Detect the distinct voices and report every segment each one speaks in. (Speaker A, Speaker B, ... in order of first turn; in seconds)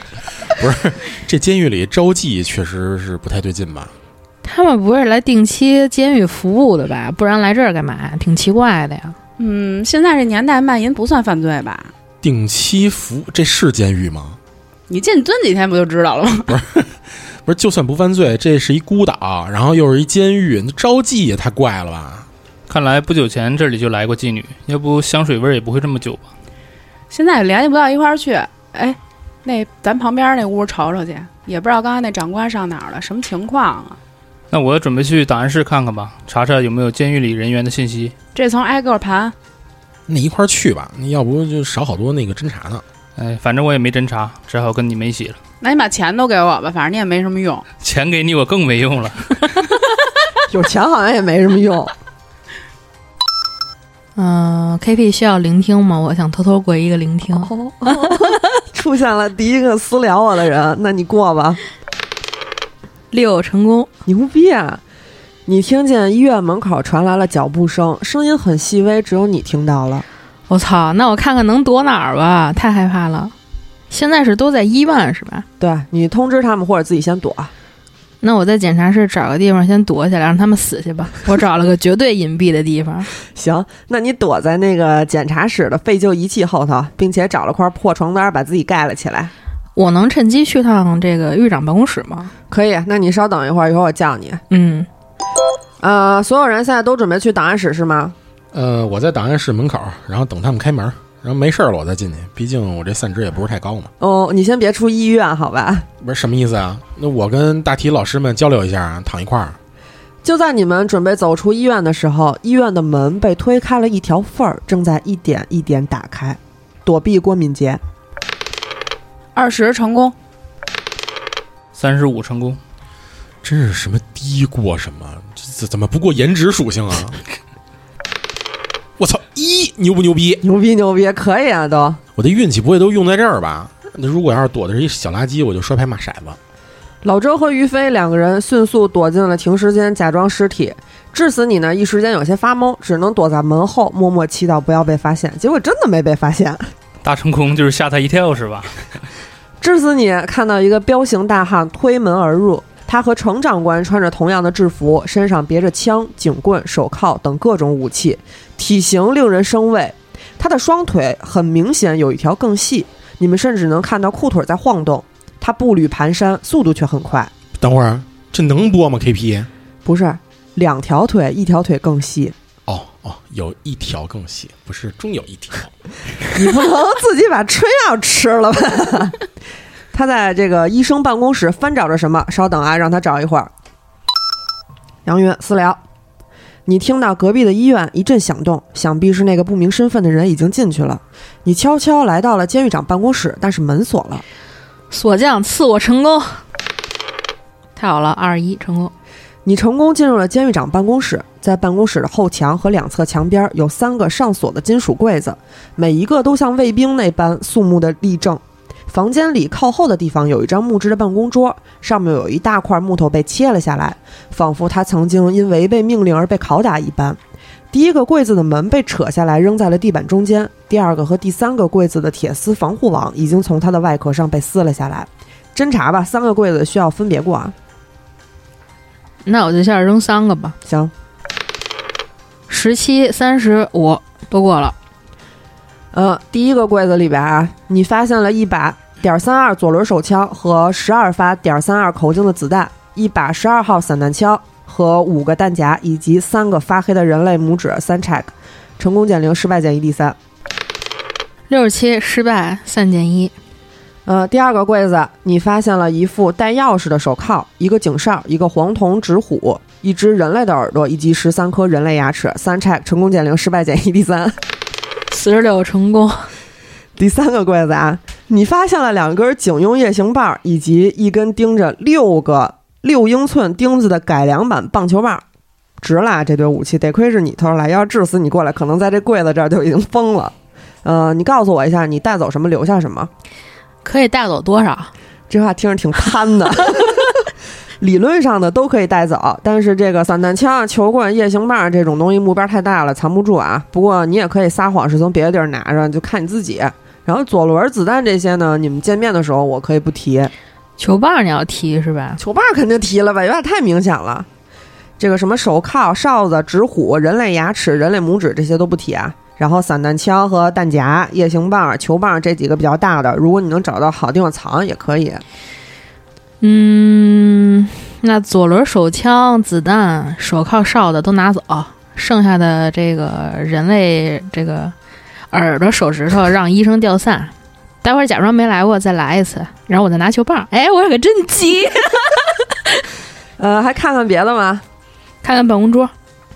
Speaker A: 0.5-3.9, 12.2-14.4, 16.5-22.3, 40.1-42.8, 98.5-103.9, 106.0-109.6, 123.4-127.2, 129.0-130.4, 132.2-136.4, 167.6-169.5, 172.7-175.7
Speaker B: 4.4-9.2, 54.1-58.5, 63.1-63.9, 70.5-73.3, 73.9-75.5, 78.2-83.1, 89.8-92.3, 94.5-94.9, 194.9-196.4, 197.8-198.9, 229.2-230.6, 232.5-234.7, 251.5-253.3, 265.1-266.3, 283.8-284.9, 300.8-302.2, 316.4-324.7, 325.3-332.4, 335.2-335.9
Speaker C: 9.4-11.9, 14.9-16.5, 27.1-34.0, 38.3-39.3, 45.6-47.6, 119.3-120.1
Speaker D: 22.7-26.3, 34.5-38.1, 43.1-45.4, 47.8-49.7, 121.7-122.6, 147.0-149.0
Speaker E: 50.5-51.9, 57.4-61.6, 64.0-64.8, 65.5-70.0, 75.6-77.5, 83.3-89.3, 92.5-94.4, 95.8-98.1, 104.0-105.9, 110.2-117.8, 130.4-132.0, 137.0-146.6, 149.6-167.3, 169.8-172.3, 176.3-179.2, 179.9-183.5, 185.1-185.8, 186.7-194.2, 199.4-217.2, 217.7-227.5, 230.7-230.9, 235.9-250.2, 254.1-264.4, 266.9-275.2, 275.8-283.1, 285.3-287.3, 287.8-300.3, 302.2-304.3, 305.0-315.2, 333.4-334.6